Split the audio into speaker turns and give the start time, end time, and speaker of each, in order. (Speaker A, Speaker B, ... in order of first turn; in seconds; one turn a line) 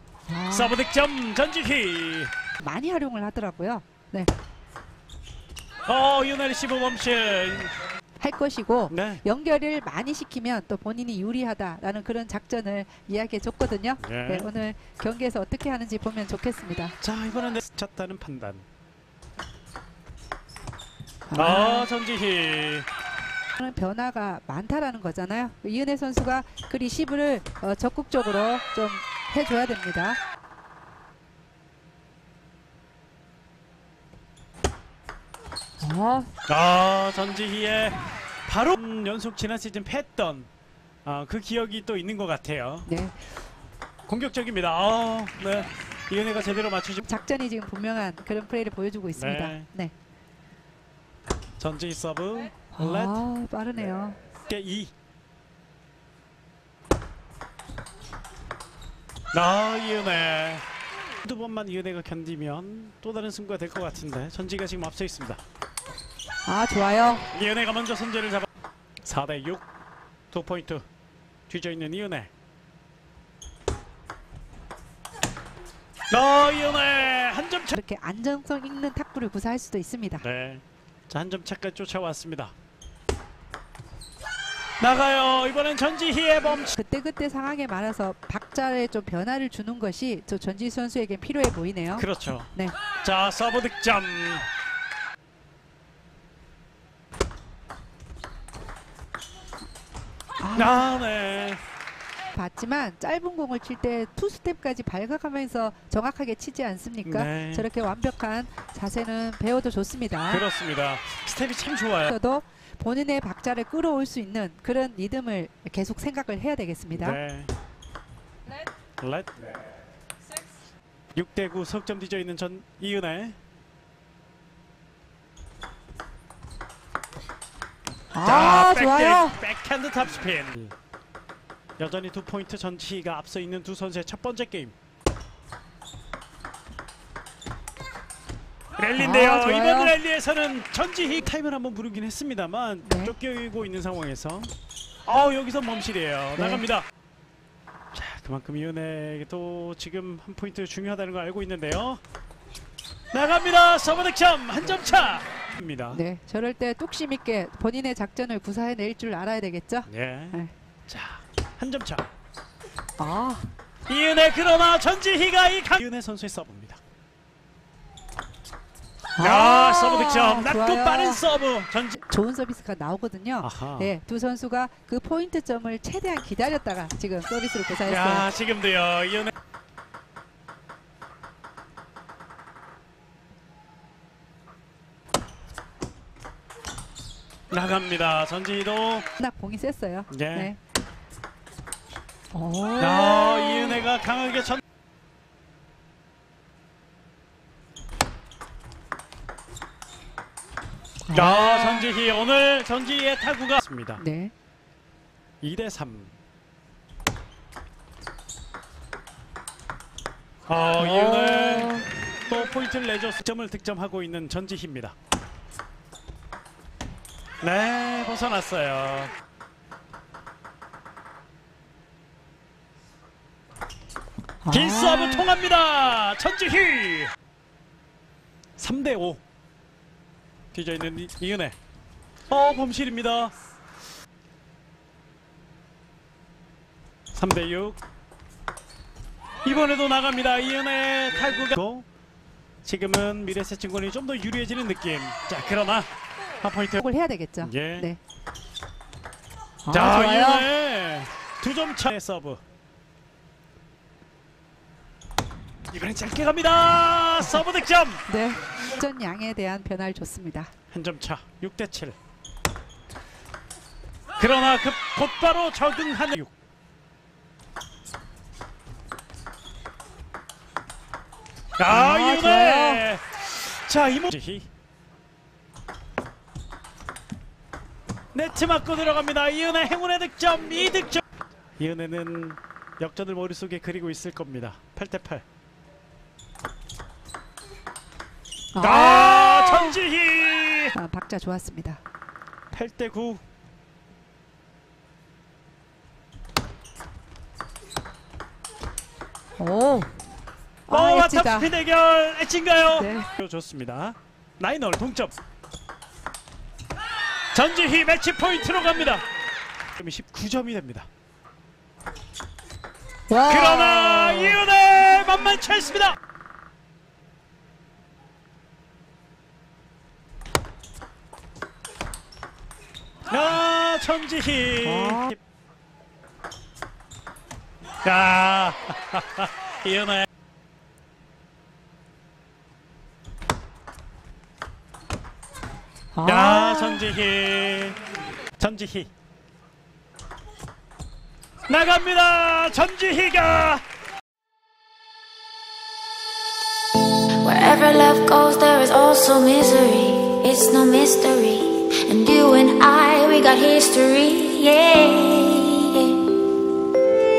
Speaker A: 0.3-0.8
Speaker B: 0.5-2.3
Speaker A: 2.6-4.3
Speaker B: 5.9-7.7
Speaker A: 8.2-16.9
Speaker B: 8.9-9.2
Speaker B: 14.0-14.5
Speaker B: 17.0-18.6
Speaker A: 21.3-21.9
Speaker B: 21.3-22.9
Speaker A: 23.6-30.2
Speaker A: 35.8-36.3
Speaker B: 36.5-40.5
Speaker B: 41.0-42.9
Speaker A: 42.9-43.2
Speaker B: 44.0-47.0
Speaker A: 47.0-49.9
Speaker B: 49.1-49.7
Speaker B: 51.6-53.2
Speaker A: 52.7-54.2
Speaker B: 54.5-54.9
Speaker B: 59.3-60.6
Speaker B: 61.2-65.4
Speaker A: 66.5-67.3
Speaker B: 67.3-68.5
Speaker B: 69.0-69.7
Speaker B: 70.3-70.8
Speaker B: 71.5-72.3
Speaker B: 76.1-77.8
Speaker A: 77.7-80.2
Speaker B: 80.2-82.5
Speaker B: 84.8-86.7
Speaker A: 86.7-92.7
Speaker B: 92.0-94.5
Speaker A: 100.4-100.8
Speaker B: 100.5-101.6
Speaker A: 102.3-110.4
Speaker B: 107.0-107.7
Speaker B: 110.3-112.1
Speaker A: 112.1-117.2
Speaker B: 116.9-117.5
Speaker B: 119.0-119.3
Speaker B: 121.1-123.3
Speaker A: 128.1-129.4
Speaker B: 128.2-130.7
Speaker B: 131.8-134.7
Speaker B: 138.8-144.5
Speaker A: 138.9-139.9
Speaker A: 142.8-143.1
Speaker B: 145.1-146.8
Speaker A: 146.3-146.6
Speaker B: 147.9-152.0
Speaker B: 153.1-156.0
Speaker A: 155.9-160.5
Speaker B: 159.8-162.1
Speaker A: 163.0-163.5
Speaker B: 163.9-166.8
Speaker A: 169.2-171.2
Speaker B: 169.2-172.0
Speaker A: 172.0-178.2
Speaker B: 173.4-173.9
Speaker B: 177.8-179.3
Speaker B: 187.5-189.1
Speaker A: 189.2-190.6
Speaker B: 190.1-190.5
Speaker A: 192.3-193.8
Speaker B: 192.8-194.6
Speaker A: 201.1-201.9
Speaker B: 201.1-204.0
Speaker A: 204.0-204.3
Speaker B: 205.4-206.1
Speaker B: 210.5-211.7
Speaker A: 210.8-211.9
Speaker B: 212.3-214.9
Speaker B: 217.4-219.1
Speaker A: 224.4-225.3
Speaker B: 224.5-227.1
Speaker B: 228.6-229.2
Speaker B: 230.5-231.6
Speaker B: 232.3-233.3
Speaker B: 237.1-237.8
Speaker B: 239.4-241.9
Speaker B: 242.6-245.9
Speaker B: 246.4-246.8
Speaker A: 246.8-248.0
Speaker B: 247.4-247.9
Speaker A: 249.6-250.5
Speaker B: 249.7-252.4
Speaker B: 255.7-258.0
Speaker A: 258.1-260.5
Speaker B: 260.7-261.9
Speaker B: 264.2-266.3
Speaker B: 271.6-274.5
Speaker A: 271.7-272.9
Speaker B: 278.1-281.0
Speaker B: 281.6-285.2
Speaker A: 288.5-289.8
Speaker B: 288.6-290.7
Speaker A: 290.7-291.8
Speaker B: 292.5-293.2
Speaker A: 299.4-299.9
Speaker A: 300.7-301.5
Speaker B: 300.7-305.1
Speaker A: 302.7-303.1
Speaker B: 307.3-309.0
Speaker B: 309.8-310.9
Speaker A: 313.1-314.4
Speaker B: 313.2-315.9
Speaker B: 323.1-325.2
Speaker A: 324.6-325.1
Speaker B: 327.8-330.1
Speaker A: 335.9-336.8
Speaker B: 336.0-337.8
Speaker B: 338.4-338.9
Speaker B: 341.5-343.6
Speaker C: 347.2-356.1